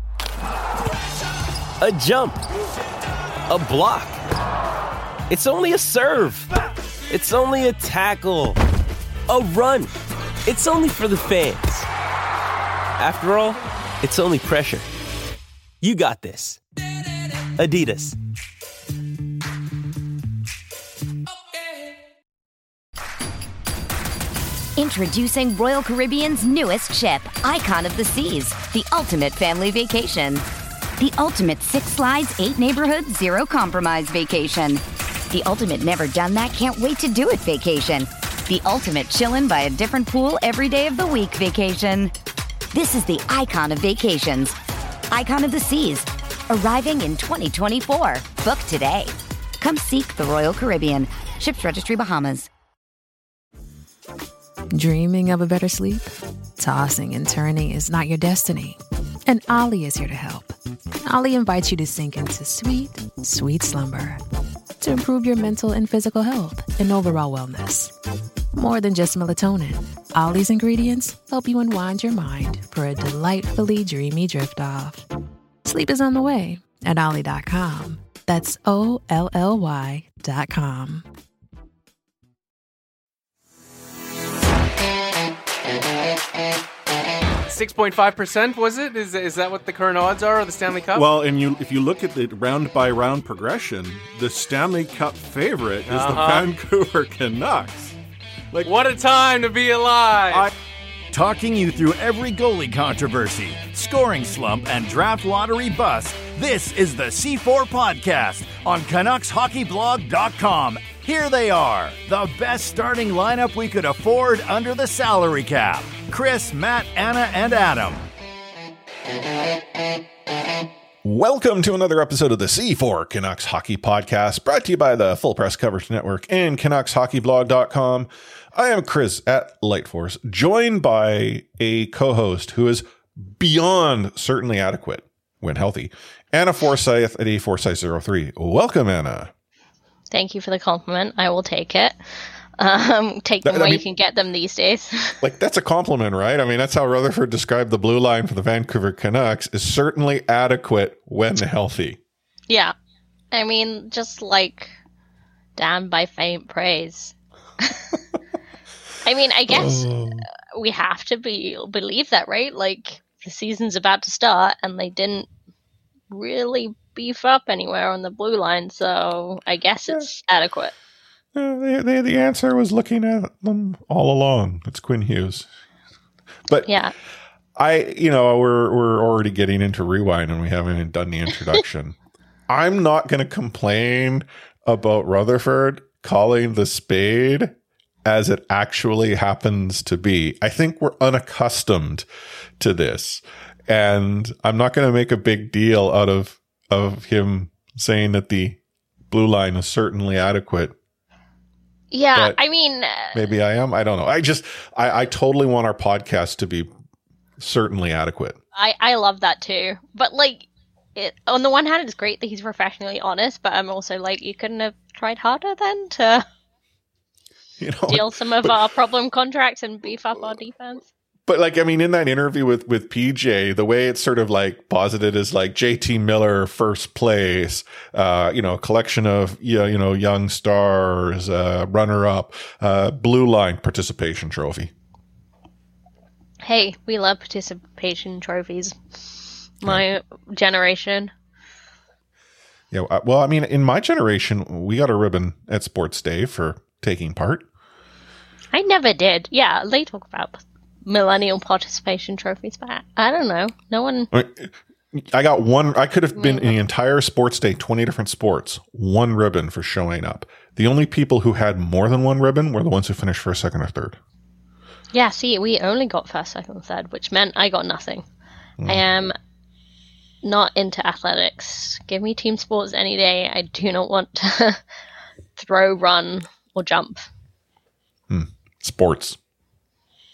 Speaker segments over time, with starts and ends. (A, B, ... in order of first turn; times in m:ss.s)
0:01.8-0:02.4 A
0:03.5-0:04.2 A
0:05.3-0:06.5 A
0:07.1-0:08.6 A
0:09.3-0:09.9 A
0:10.4-0:11.9 A
0:13.0-0:14.8 A
0:15.8-0:16.6 A
0:17.6-0:18.1 A
0:24.7-0:30.4 B
0:31.0-0:42.1 B
0:42.7-0:44.6 B
0:45.1-0:52.5 B
0:54.7-1:04.2 C
1:04.8-1:07.9 C
1:08.5-1:15.0 C
1:15.6-1:21.0 C
1:27.5-1:31.1 D
1:30.9-1:38.0 E
1:35.8-1:36.5 D
1:38.6-1:40.4 D
1:41.1-1:58.0 F
2:01.0-2:19.3 E
2:20.1-2:21.9 G
2:22.6-2:25.2 G
2:23.4-2:23.8 E
2:25.2-2:32.0 E
2:32.5-2:32.7 G
2:33.3-2:34.7 G
2:35.6-2:37.8 G
2:39.0-2:39.9 G
2:39.5-2:40.3 E
2:40.5-2:45.3 G
2:46.1-2:50.7 G
2:51.3-2:55.5 E
2:56.6-2:56.9 G
2:57.6-3:02.0 E
3:02.5-3:12.0 E
3:12.6-3:18.6 E
3:19.1-3:20.7 E
3:21.9-3:23.2 G
3:23.1-3:26.7 E
3:27.4-3:28.4 E
3:28.6-3:36.2 G
3:37.6-3:38.6 E
3:37.9-3:40.9 G
3:41.3-3:54.7 E
3:56.4-4:01.1 G
4:02.7-4:07.4 E
4:08.5-4:14.1 G
4:14.1-4:24.0 E
4:16.1-4:16.5 G
4:24.9-4:28.0 G
4:28.6-4:29.1 G
4:30.2-4:34.6 G
4:35.4-4:37.1 G
4:38.1-4:39.2 E